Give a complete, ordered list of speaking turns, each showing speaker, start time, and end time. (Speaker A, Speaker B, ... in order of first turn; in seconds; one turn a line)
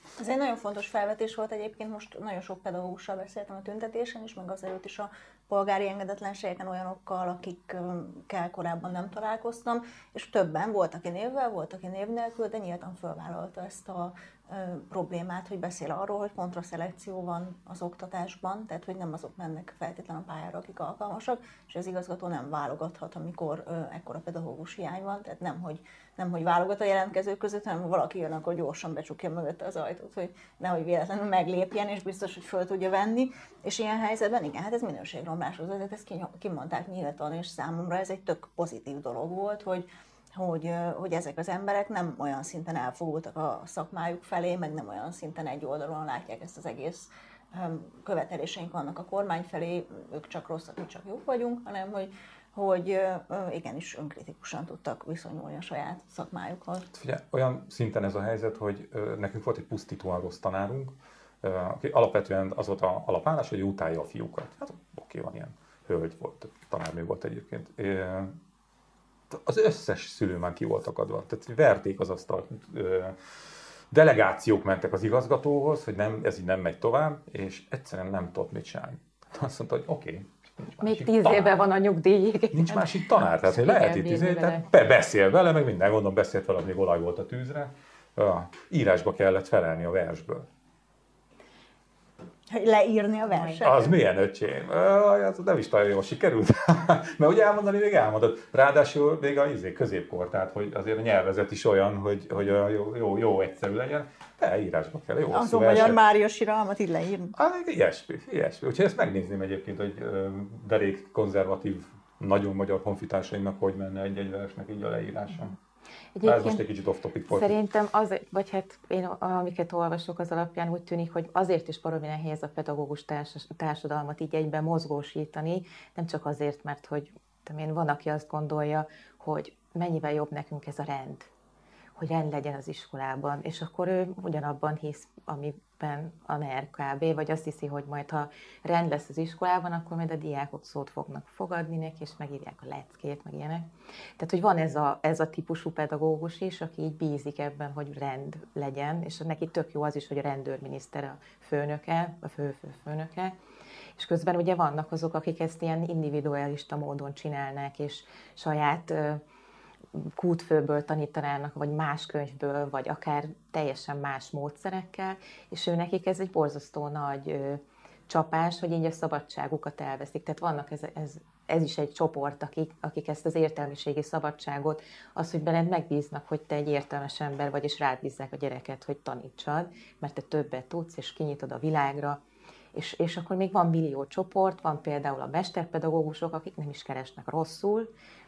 Speaker A: 0.2-56.9
Speaker B: 56.9-68.3
Speaker B: 69.3-73.2
Speaker B: 73.9-81.7
Speaker C: 80.8-84.7
Speaker B: 82.5-90.5
Speaker A: 92.5-93.9
Speaker B: 93.6-106.0
Speaker A: 105.3-107.3
Speaker B: 107.3-115.5
Speaker C: 116.2-116.6
Speaker B: 116.2-117.5
Speaker C: 117.3-131.3
Speaker C: 131.9-143.7
Speaker C: 144.2-153.3
Speaker C: 153.9-159.2
Speaker C: 159.9-182.2
Speaker C: 182.7-187.9